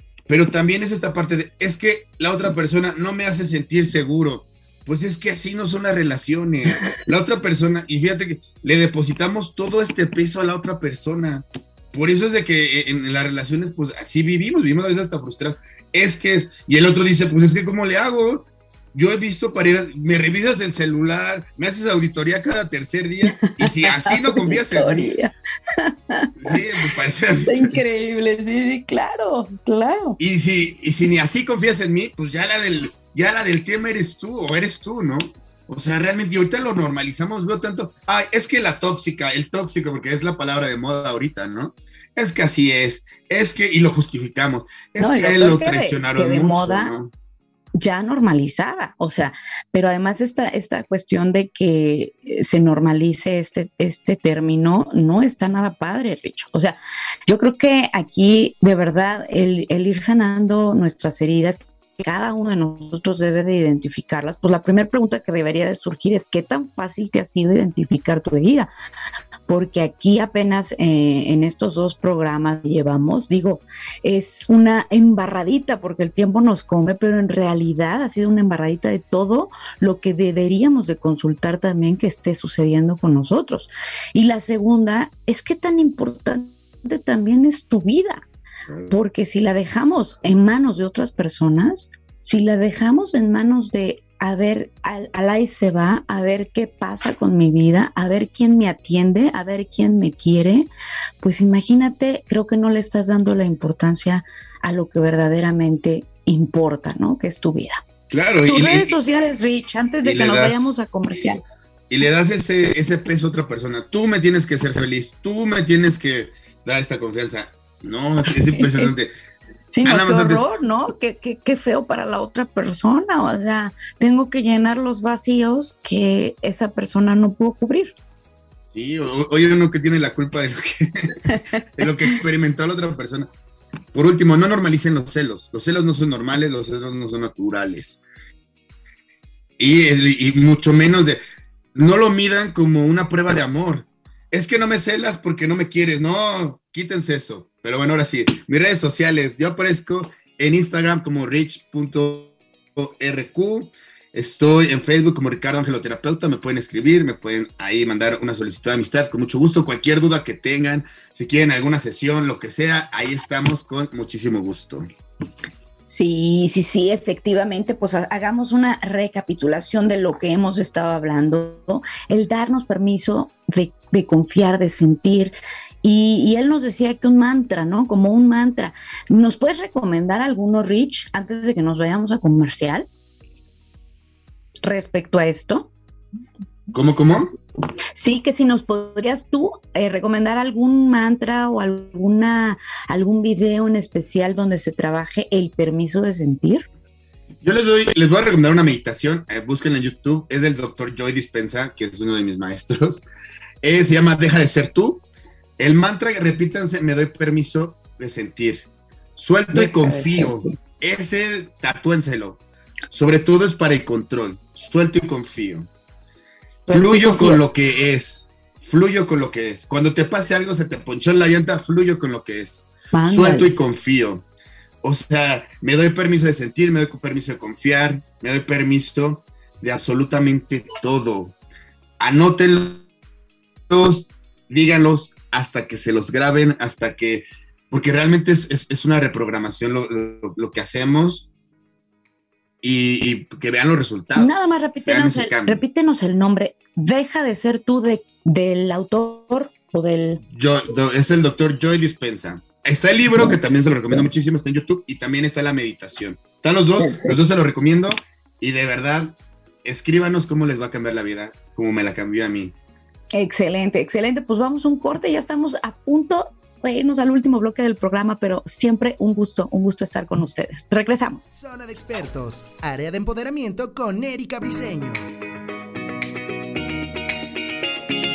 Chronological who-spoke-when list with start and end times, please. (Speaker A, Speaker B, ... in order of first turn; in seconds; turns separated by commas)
Speaker A: 0.3-25.1, Speaker B: 23.4-26.6, Speaker A: 26.4-27.8, Speaker B: 27.4-30.2, Speaker A: 30.2-47.1, Speaker B: 45.0-46.9, Speaker B: 47.8-68.7, Speaker B: 69.5-88.2, Speaker B: 88.9-100.7, Speaker B: 101.2-107.8, Speaker A: 108.1-109.0, Speaker B: 108.5-111.4, Speaker A: 110.0-110.7, Speaker A: 111.9-119.1, Speaker B: 118.3-118.9, Speaker B: 119.7-127.9, Speaker A: 119.8-120.5, Speaker A: 128.7-131.2, Speaker B: 131.3-131.6, Speaker A: 131.8-133.3, Speaker A: 133.9-138.0, Speaker A: 139.6-141.2, Speaker A: 141.7-164.9, Speaker B: 165.9-182.9, Speaker B: 184.6-185.7, Speaker A: 186.7-187.3, Speaker B: 187.9-196.7, Speaker A: 197.4-203.1, Speaker A: 203.6-205.0, Speaker A: 205.6-212.4, Speaker B: 209.5-210.3, Speaker A: 212.9-215.7, Speaker B: 216.7-217.4, Speaker A: 216.7-224.2, Speaker B: 222.9-223.5, Speaker A: 224.8-231.3, Speaker A: 232.0-232.9, Speaker A: 233.7-241.3, Speaker A: 242.6-245.6, Speaker B: 244.2-250.2, Speaker A: 250.3-262.5, Speaker B: 253.2-254.1, Speaker B: 256.8-257.1, Speaker B: 263.1-271.3, Speaker C: 271.3-275.1